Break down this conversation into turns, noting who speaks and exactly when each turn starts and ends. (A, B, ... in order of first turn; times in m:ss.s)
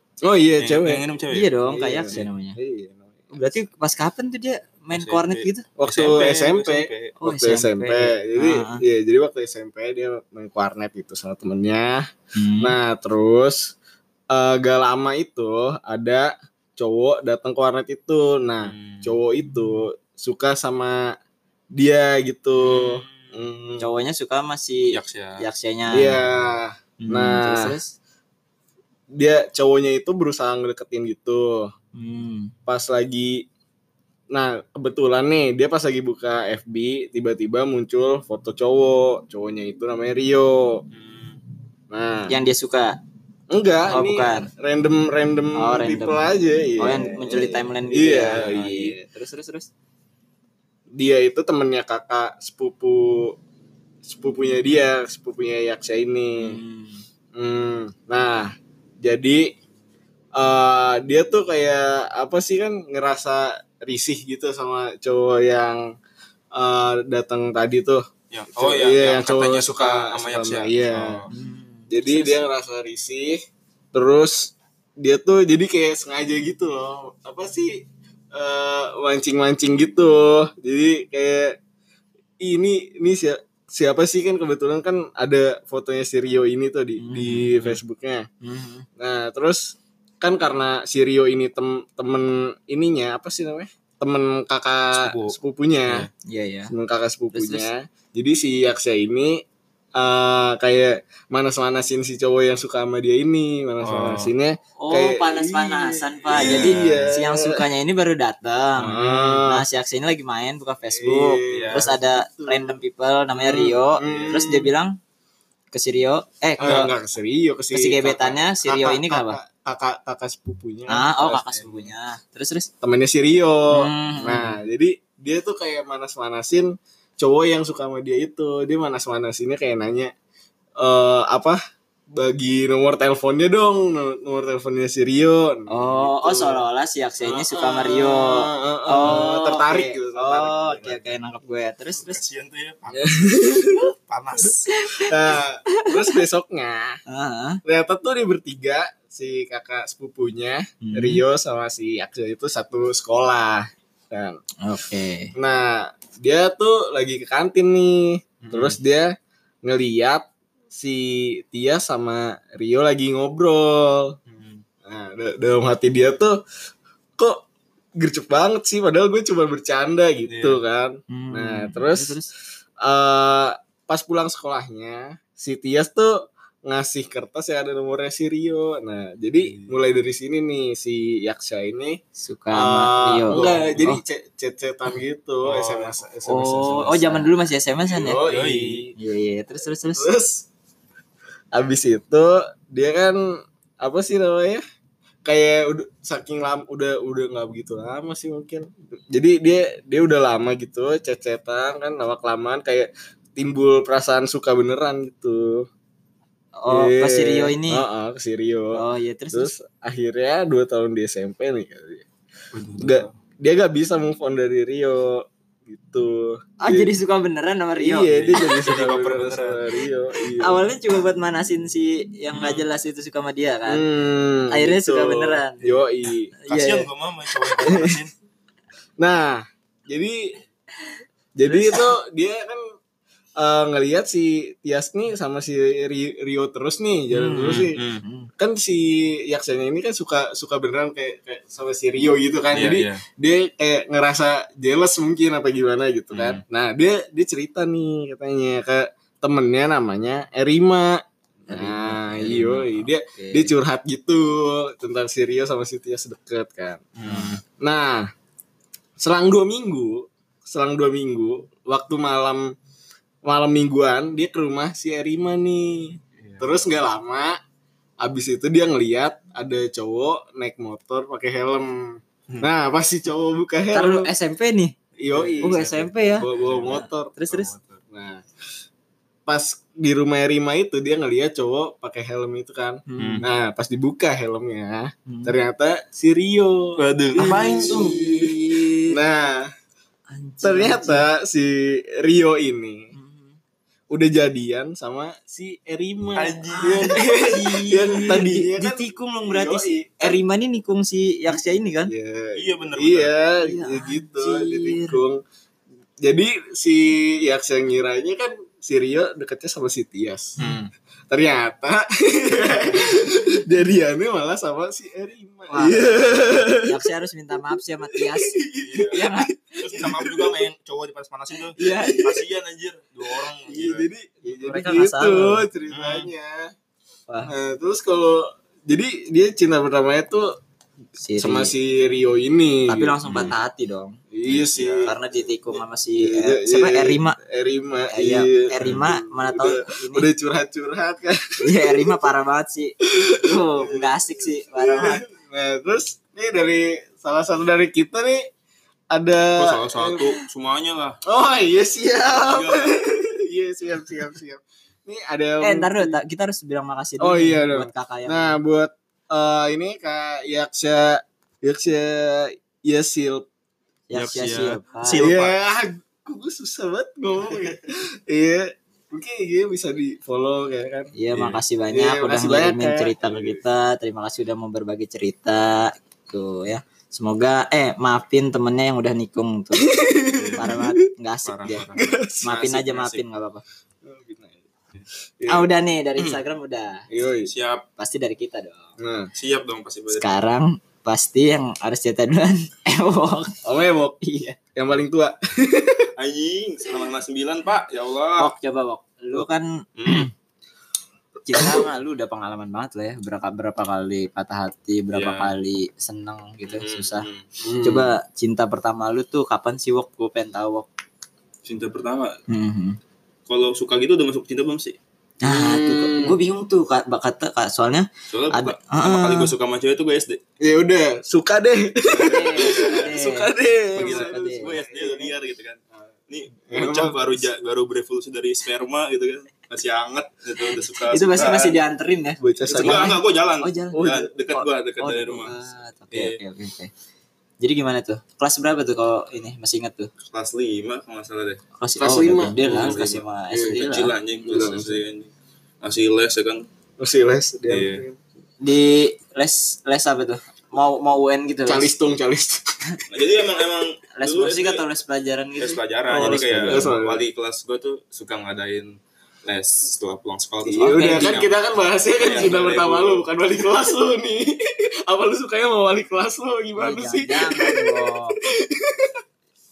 0:00.2-0:01.0 A
0:00.6-0:01.5 B
0:01.3-0:02.6 C
0:01.6-0:03.3 A
0:03.3-0:05.6 C
0:04.9-0:07.2 B
0:05.8-0:12.1 A
0:07.2-0:08.8 C
0:12.3-0:12.8 C
0:12.6-0:13.7 A
0:14.3-0:21.2 A
0:18.6-0:19.2 B
0:21.7-0:23.8 A
0:22.6-0:23.4 B
0:23.8-0:26.2 C
0:24.9-0:25.4 B
0:25.9-0:27.8 A
0:27.0-0:28.0 C
0:29.1-0:31.7 A
0:31.9-0:32.5 C
0:32.7-0:33.5 A
0:34.3-0:40.8 A
0:40.9-0:41.4 B
0:41.9-0:42.3 A
0:42.3-0:43.0 C
0:43.5-0:49.0 A
0:43.9-0:44.5 C
0:45.6-0:46.2 C
0:46.8-0:49.7 C
0:50.9-0:53.4 A
0:54.0-0:56.6 A
0:56.4-0:57.0 C
0:57.4-0:59.5 A
1:00.4-1:05.9 A
1:06.5-1:11.3 A
1:08.3-1:11.3 B
1:11.3-1:11.9 C
1:11.9-1:13.4 A
1:13.9-1:21.6 A
1:22.4-1:28.3 A
1:27.0-1:27.8 C
1:28.4-1:28.8 C
1:29.0-1:36.1 A
1:34.9-1:35.4 B
1:36.2-1:36.7 C
1:36.7-1:39.4 A
1:37.3-1:37.7 C
1:40.0-1:47.6 A
1:43.8-1:44.3 B
1:44.8-1:55.0 C
1:46.3-1:47.1 B
1:48.8-1:49.2 B
1:48.8-1:49.6 A
1:50.9-1:52.8 A
1:51.5-1:51.9 B
1:53.4-1:54.7 A
1:54.0-1:54.4 B
1:55.7-1:56.8 C
1:56.6-2:01.4 A
1:56.6-1:56.9 B
1:57.7-1:59.4 C
2:00.9-2:02.7 C
2:01.3-2:01.8 B
2:02.8-2:10.1 A
2:03.7-2:04.6 C
2:10.8-2:11.6 A
2:12.1-2:16.6 A
2:15.7-2:22.2 C
2:17.2-2:20.8 A
2:20.5-2:21.2 B
2:21.9-2:24.9 B
2:22.9-2:23.8 A
2:24.7-2:25.1 C
2:25.0-2:27.0 A
2:25.7-2:26.1 C
2:27.1-2:27.6 C
2:27.6-2:34.4 A
2:30.8-2:31.2 C
2:34.6-2:35.3 C
2:35.4-2:44.2 A
2:38.4-2:38.8 B
2:44.3-2:44.6 B
2:44.8-2:46.4 A
2:47.2-2:47.4 A
2:48.0-2:52.2 A
2:50.3-2:50.6 B
2:51.1-2:52.3 C
2:52.8-3:02.0 A
2:59.4-2:59.8 B
3:02.2-3:04.0 C
3:02.5-3:07.3 A
3:03.3-3:03.9 B
3:05.4-3:06.0 B
3:06.3-3:08.2 C
3:07.9-3:08.9 A
3:08.0-3:08.8 B
3:09.0-3:10.1 C
3:10.0-3:10.4 A
3:11.5-3:13.3 A
3:13.8-3:14.6 A
3:15.2-3:25.7 A
3:26.6-3:27.8 C
3:26.7-3:28.8 A
3:28.7-3:29.5 C
3:29.3-3:32.0 A
3:32.5-3:33.1 B
3:32.8-3:36.9 A
3:36.6-3:38.7 C
3:37.8-3:40.6 A
3:38.2-3:39.8 B
3:40.4-3:43.8 C
3:42.3-3:42.6 B
3:43.7-3:46.4 A
3:44.5-3:45.7 C
3:46.4-3:46.9 C
3:46.5-3:48.1 B
3:47.5-3:48.0 A
3:49.0-3:50.4 A
3:51.4-3:52.7 A
3:51.5-3:51.8 C
3:53.4-3:57.8 A
3:57.1-3:58.3 C
3:57.4-3:58.0 B
3:58.4-4:18.1 A
4:02.5-4:03.0 B
4:06.1-4:06.4 B
4:11.5-4:13.5 C
4:12.3-4:12.6 B
4:17.0-4:17.4 B
4:17.1-4:17.3 C
4:19.0-4:22.5 A
4:23.2-4:27.4 A
4:26.2-4:26.6 B
4:28.0-4:34.1 A
4:33.7-4:34.8 C
4:35.0-4:37.2 A
4:35.1-4:37.8 B
4:35.4-4:37.5 C
4:37.9-4:38.2 A
4:39.3-4:49.5 A
4:42.8-4:43.2 C
4:43.0-4:43.2 B
4:45.1-4:45.4 C
4:46.8-4:48.0 B
4:47.2-4:49.0 C
4:50.1-4:51.1 C
4:50.4-4:52.9 A
4:52.9-4:53.4 C
4:53.9-5:00.2 A
4:56.2-4:57.0 B
4:56.5-5:01.9 C
5:01.3-5:05.2 A
5:02.3-5:03.1 B
5:03.4-5:05.0 C
5:06.0-5:10.3 A
5:10.4-5:10.7 B
5:11.1-5:16.8 A
5:12.7-5:13.4 C
5:15.5-5:19.3 C
5:17.9-5:20.4 A
5:18.6-5:23.9 B
5:21.6-5:22.0 C
5:21.6-5:22.2 A
5:23.1-5:26.5 A
5:24.3-5:25.5 C
5:25.7-5:26.1 B
5:27.2-5:30.4 A
5:31.0-5:31.5 C
5:31.2-5:33.2 A
5:32.7-5:34.0 C
5:33.1-5:33.4 B
5:34.1-5:35.0 A
5:34.2-5:34.9 B
5:34.8-5:37.2 C
5:35.5-5:41.9 A
5:37.9-5:40.1 C
5:38.6-5:38.8 B
5:41.4-5:45.0 C
5:42.8-5:48.2 A
5:48.9-5:50.1 A
5:49.4-5:51.0 B
5:51.0-5:56.0 A
5:52.0-5:52.8 B
5:55.4-5:58.4 C
5:57.0-6:03.3 A
6:03.9-6:05.0 C
6:03.9-6:05.4 B
6:04.9-6:10.9 A
6:10.9-6:19.7 C
6:11.1-6:11.4 B
6:11.7-6:13.4 A
6:19.6-6:20.8 A
6:20.1-6:20.5 B
6:20.4-6:21.6 C
6:21.2-6:23.0 B
6:21.5-6:22.2 A
6:22.2-6:23.4 C
6:23.8-6:24.4 A
6:25.2-6:25.5 A
6:25.3-6:26.9 C
6:26.9-6:27.3 A
6:27.2-6:27.6 B
6:27.8-6:28.7 C
6:28.8-6:29.1 A
6:29.1-6:30.2 B
6:29.9-6:33.4 C
6:33.4-6:34.0 A
6:34.0-6:34.4 C
6:34.5-6:35.9 A
6:36.0-6:38.3 B
6:38.2-6:40.1 C
6:39.8-6:40.1 B
6:41.2-6:47.1 C
6:44.9-6:45.3 B
6:46.4-6:47.2 B
6:47.4-6:47.9 A
6:47.6-6:50.7 C
6:51.4-6:52.2 B
6:52.3-6:52.8 C
6:53.3-6:54.8 B
6:55.2-6:59.3 C
6:55.2-6:56.2 A
6:58.1-7:00.2 B
7:00.4-7:05.1 A
7:01.9-7:03.0 B
7:02.0-7:04.5 C
7:03.7-7:11.6 B
7:06.5-7:07.2 A
7:10.4-7:13.8 C
7:12.2-7:13.0 A
7:12.5-7:15.4 B
7:13.7-7:14.1 A
7:14.3-7:16.7 C
7:15.9-7:16.2 B
7:17.4-7:19.9 C
7:20.1-7:21.4 B
7:21.6-7:23.9 C
7:21.8-7:22.8 A
7:22.4-7:25.1 B
7:23.3-7:23.7 A
7:24.2-7:24.8 A
7:25.6-7:26.5 B
7:26.8-7:28.0 A
7:27.5-7:27.8 B
7:28.4-7:31.7 C
7:31.4-7:32.5 A
7:32.9-7:34.6 B
7:33.9-7:36.7 C
7:35.4-7:41.4 B
7:36.0-7:37.0 A
7:40.4-7:49.0 A
7:40.6-7:41.1 C
7:41.9-7:43.0 B
7:46.6-7:48.2 C